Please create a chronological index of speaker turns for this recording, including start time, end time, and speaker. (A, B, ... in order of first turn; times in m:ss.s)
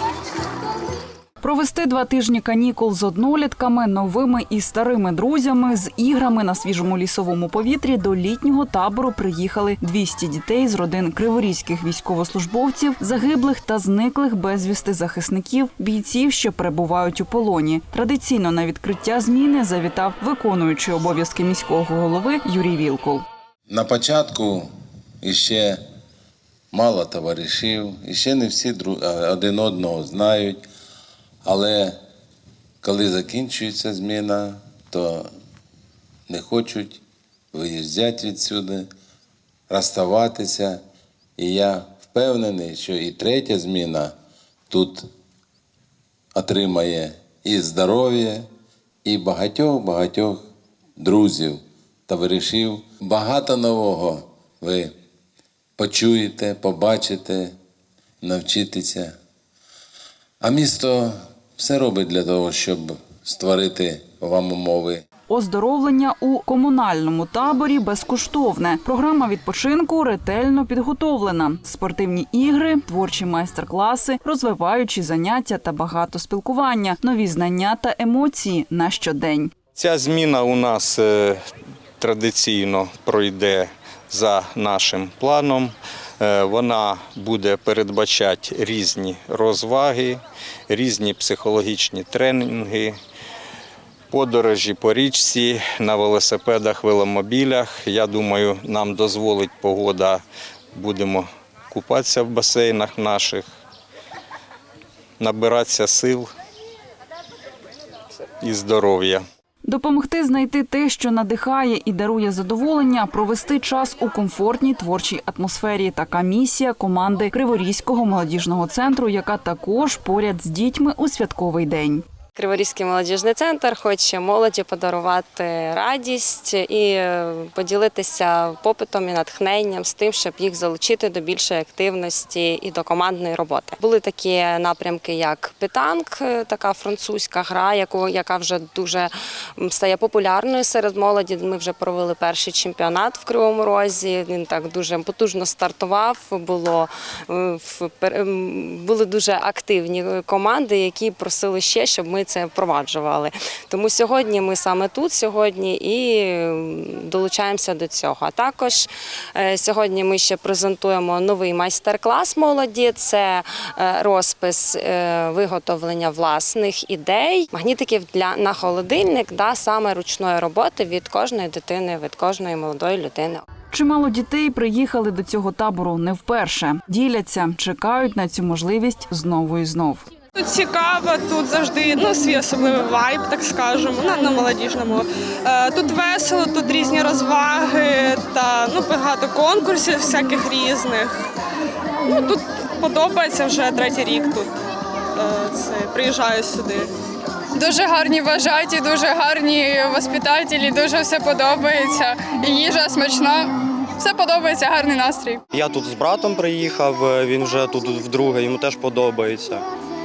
0:01.4-0:23.2 A
0:23.7-0:24.7 B
0:25.2-0:25.8 B
0:26.7-0:30.6 B
0:31.4-0:32.0 B
0:32.8-0:35.3 B
0:36.3-0:37.0 B
0:37.5-0:38.9 B
0:39.7-0:40.8 B
0:41.4-0:44.1 B
0:44.7-0:45.1 B
0:46.3-0:48.4 B
0:49.0-0:50.4 B
0:51.0-0:54.9 B
0:55.8-0:57.6 B
0:58.2-0:59.1 B
1:00.4-1:05.0 B
1:05.3-1:19.5 A
1:19.8-1:21.4 C
1:22.0-1:33.0 C
1:34.1-1:40.2 C
1:40.7-1:43.4 C
1:45.2-1:46.3 C
1:48.4-1:49.2 C
1:49.6-2:02.0 A
2:02.4-2:53.4 D
2:53.7-3:00.0 A
3:00.4-3:11.1 E
3:12.1-3:14.5 E
3:15.2-3:16.9 E
3:17.6-3:25.4 F
3:25.5-3:29.6 G